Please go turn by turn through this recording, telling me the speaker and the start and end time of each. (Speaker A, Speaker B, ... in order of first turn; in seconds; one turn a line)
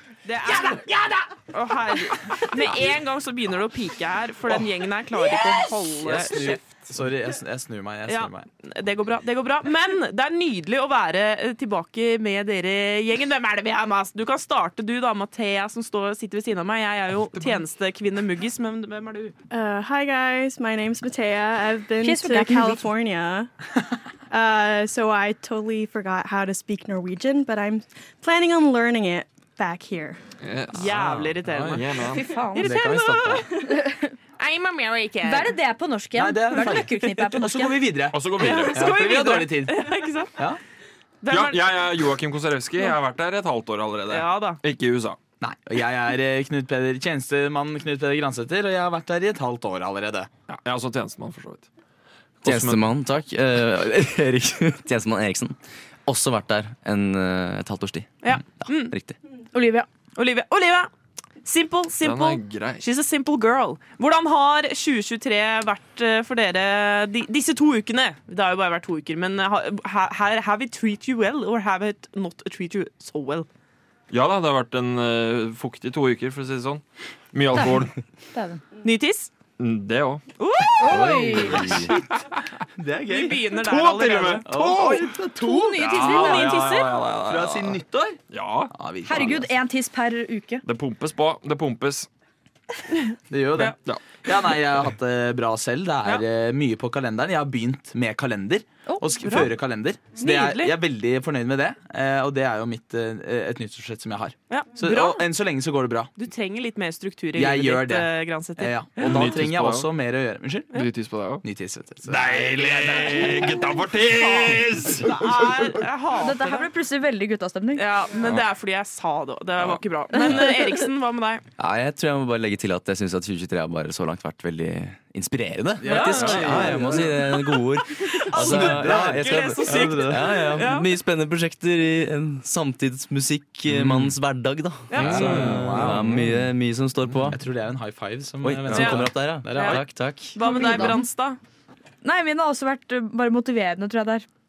Speaker A: 0.2-0.8
Speaker A: 1.5-6.7
Speaker B: 2.2-2.7
Speaker B: 5.1-5.8
Speaker C: 6.0-8.5
Speaker A: 8.1-19.3
Speaker D: 17.3-17.6
Speaker E: 19.5-23.5
Speaker B: 22.0-22.8
Speaker E: 24.3-30.2
Speaker D: 30.4-32.3
Speaker A: 30.7-33.4
Speaker C: 31.4-31.8
Speaker B: 32.2-32.6
Speaker C: 32.6-33.4
Speaker B: 33.7-34.1
Speaker A: 34.4-35.5
Speaker B: 35.2-37.9
Speaker C: 36.1-39.8
Speaker D: 38.1-39.0
Speaker A: 38.4-40.4
Speaker A: 41.2-41.8
Speaker D: 41.3-45.2
Speaker A: 44.1-44.6
Speaker C: 45.4-50.3
Speaker D: 50.5-51.7
Speaker D: 52.4-52.8
Speaker F: 52.4-59.2
Speaker A: 58.2-58.9
Speaker A: 60.1-60.9
Speaker A: 61.4-73.5
Speaker D: 62.0-62.8
Speaker D: 74.1-78.0
Speaker B: 78.3-78.6
Speaker A: 78.8-79.3
Speaker D: 79.6-80.2
Speaker A: 80.4-81.2
Speaker B: 80.8-81.8
Speaker C: 80.9-81.8
Speaker F: 80.9-81.8
Speaker C: 82.8-83.4
Speaker A: 83.1-84.5
Speaker D: 83.6-85.2
Speaker C: 84.4-85.9
Speaker B: 85.4-86.8
Speaker D: 85.8-88.7
Speaker A: 85.9-86.9
Speaker C: 87.0-88.2
Speaker C: 88.7-89.5
Speaker B: 89.0-90.6
Speaker D: 90.6-92.1
Speaker C: 93.3-106.1
Speaker D: 93.8-94.2
Speaker A: 99.2-99.5
Speaker A: 100.1-100.7
Speaker A: 104.5-105.3
Speaker A: 106.2-109.3
Speaker C: 107.3-110.7
Speaker D: 109.0-109.9
Speaker D: 110.7-111.4
Speaker C: 111.4-113.6
Speaker D: 112.1-115.4
Speaker A: 114.2-116.7
Speaker B: 116.1-117.8
Speaker A: 117.8-121.4
Speaker B: 120.1-120.8
Speaker F: 121.6-137.4
Speaker C: 125.8-127.2
Speaker A: 125.8-127.2
Speaker A: 128.0-130.9
Speaker C: 128.3-130.3
Speaker D: 133.8-134.1
Speaker A: 134.9-135.5
Speaker C: 134.9-136.4
Speaker D: 137.0-137.3
Speaker C: 137.3-139.8
Speaker F: 138.4-140.9
Speaker A: 138.7-141.4
Speaker B: 140.4-141.0
Speaker B: 142.0-144.2